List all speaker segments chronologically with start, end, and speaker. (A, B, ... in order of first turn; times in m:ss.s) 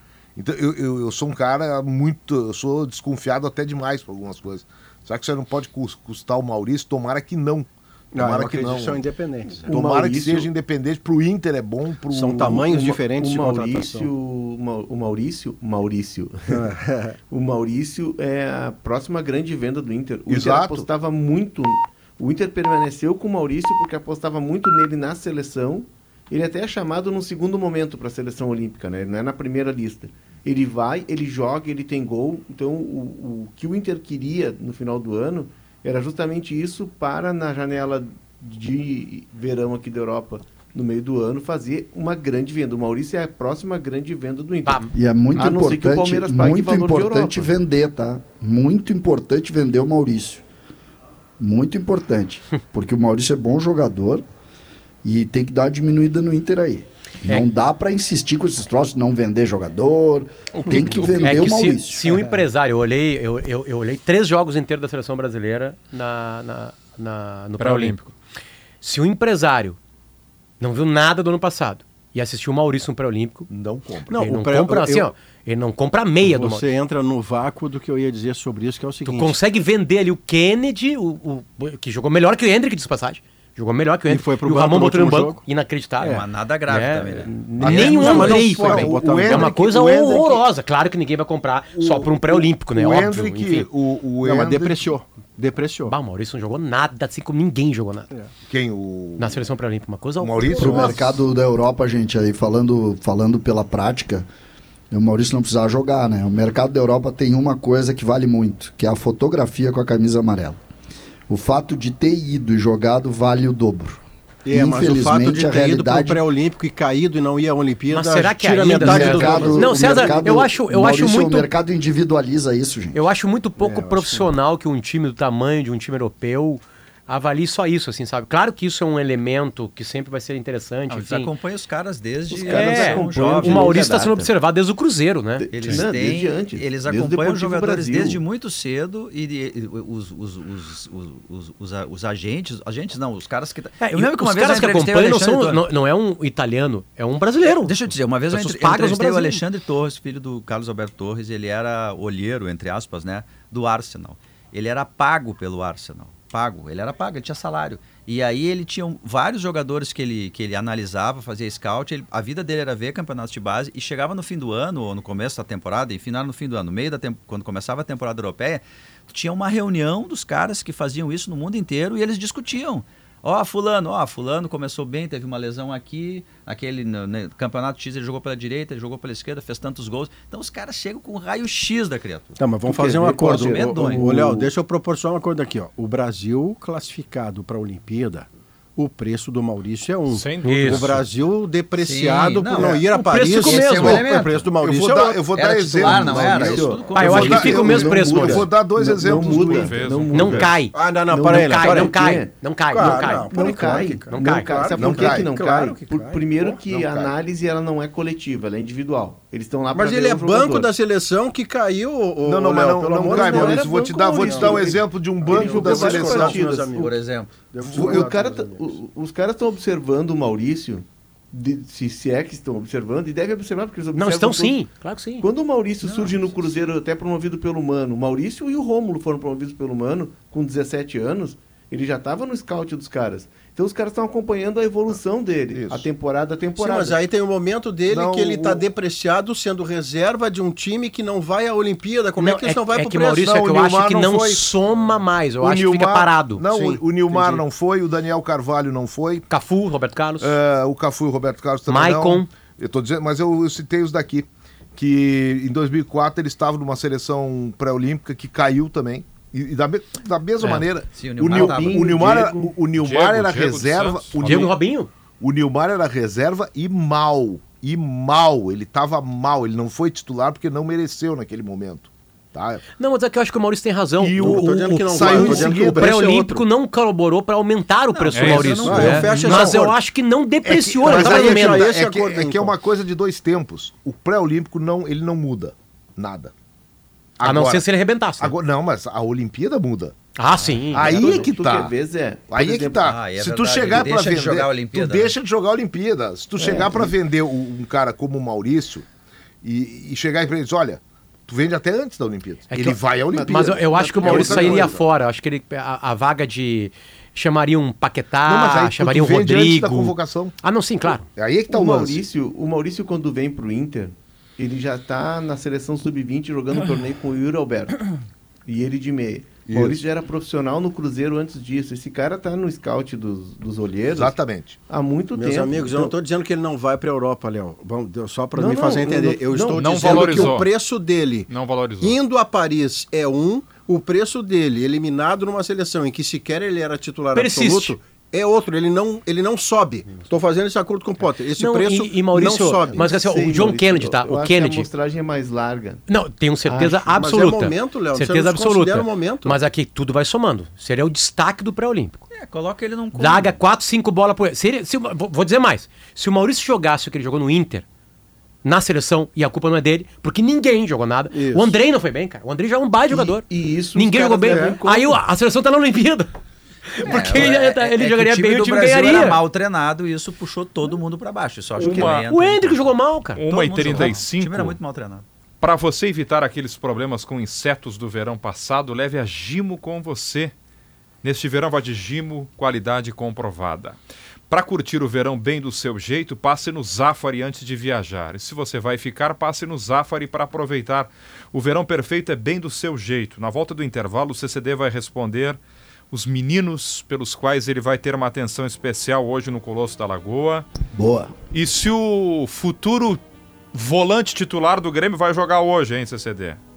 0:00.4-0:09.0 A
0:08.1-0:09.7 B
0:09.5-0:10.5 C
0:09.7-0:12.7 A
0:12.1-0:14.1 B
0:12.6-0:16.6 C
0:16.5-0:17.1 B
0:17.3-0:47.5 C
0:20.3-0:20.9 A
0:44.6-0:44.9 D
0:44.9-0:50.4 E
0:51.4-0:54.2 E
0:55.0-1:02.0 E
1:00.5-1:01.4 F
1:01.2-1:08.1 D
1:02.1-1:02.4 B
1:07.6-1:08.0 F
1:08.8-1:09.8 D
1:10.6-1:13.5 D
1:13.5-1:14.2 A
1:14.1-1:15.1 B
1:14.1-1:16.6 D
1:16.2-1:19.4 B
1:19.0-1:33.7 D
1:24.1-1:25.4 B
1:26.0-1:28.4 G
1:27.3-1:28.6 C
1:27.6-1:30.4 A
1:27.6-1:29.6 B
1:31.8-1:34.9 A
1:34.2-1:36.0 B
1:35.9-1:38.1 D
1:38.5-1:39.5 A
1:39.2-1:41.0 D
1:40.2-1:41.2 A
1:40.5-1:44.3 E
1:44.9-1:50.6 E
1:51.3-1:56.2 E
1:54.4-2:00.5 B
1:57.9-2:01.5 D
1:58.7-2:03.0 E
2:02.9-2:11.3 D
2:03.6-2:04.3 B
2:10.9-2:14.0 G
2:12.3-2:14.3 C
2:12.4-2:15.5 D
2:15.4-2:18.2 C
2:15.5-2:25.6 G
2:23.8-2:27.7 D
2:27.6-3:02.4 G
2:28.3-2:29.4 D
3:02.4-3:15.2 B
3:02.6-3:04.4 C
3:03.0-3:04.0 G
3:10.1-3:11.0 F
3:10.4-3:10.8 D
3:11.8-3:14.5 G
3:13.1-3:14.0 D
3:14.6-3:19.9 A
3:15.3-3:17.4 G
3:15.8-3:30.7 C
3:16.9-3:18.4 D
3:19.3-3:20.5 F
3:20.1-3:23.3 D
3:20.7-3:22.0 B
3:22.7-3:26.4 B
3:24.1-3:24.5 D
3:24.8-3:25.4 A
3:26.5-3:27.1 A
3:29.7-3:36.9 B
3:32.2-3:36.4 A
3:32.9-3:36.8 C
3:35.7-3:38.0 G
3:37.5-3:38.8 B
3:37.7-3:44.6 C
3:43.9-3:45.2 D
3:45.2-3:57.0 C
3:45.8-3:46.2 G
3:55.5-3:55.9 A
3:56.6-4:03.2 B
3:57.9-3:58.6 A
4:02.2-4:06.4 D
4:03.2-4:04.4 A
4:05.4-4:09.2 A
4:06.5-4:07.4 B
4:09.3-4:10.4 D
4:10.2-4:24.5 A
4:11.7-4:12.3 D
4:20.9-4:22.3 G
4:21.2-4:22.6 C
4:22.7-4:24.5 F
4:24.2-4:24.9 D
4:25.2-4:32.6 A
4:32.8-4:34.5 D
4:34.0-4:36.0 A
4:34.2-4:36.4 B
4:35.0-4:41.7 D
4:37.9-4:39.1 G
4:38.1-4:38.8 F
4:38.6-4:39.8 B
4:39.1-4:39.5 A
4:40.4-4:46.3 A
4:40.8-4:42.6 B
4:47.2-4:47.7 A
4:47.2-4:48.3 D
4:48.2-4:49.9 A
4:50.2-4:51.2 D
4:50.4-4:50.6 G
4:50.7-4:51.7 A
4:50.7-4:52.9 C
4:52.3-4:58.8 A
4:52.8-4:55.2 G
4:56.4-4:56.9 C
4:59.4-5:04.8 A
5:02.5-5:11.0 D
5:03.1-5:04.8 C
5:08.2-5:10.3 A
5:11.2-5:12.0 A
5:11.5-5:17.9 C
5:18.5-5:24.2 C
5:19.4-5:19.8 A
5:23.9-5:24.6 A
5:24.7-5:25.9 C
5:25.1-5:42.9 B
5:28.3-5:30.4 C
5:29.5-5:30.5 F
5:31.3-5:32.0 F
5:37.1-5:37.8 D
5:41.4-5:44.7 D
5:42.2-5:45.8 C
5:45.9-5:52.0 D
5:46.4-5:47.0 C
5:47.0-5:49.4 B
5:52.1-5:53.4 G
5:53.0-5:57.6 D
5:58.4-6:06.1 D
6:01.1-6:01.5 B
6:02.9-6:05.0 C
6:06.7-6:09.2 D
6:06.8-6:12.8 G
6:11.6-6:11.9 C
6:11.6-6:12.0 F
6:11.8-6:13.2 D
6:13.2-6:14.6 F
6:13.3-6:15.0 G
6:15.4-6:20.3 F
6:21.0-6:23.8 F
6:24.3-6:40.4 F
6:40.7-6:41.1 E
6:41.3-6:43.0 F
6:43.5-6:46.4 F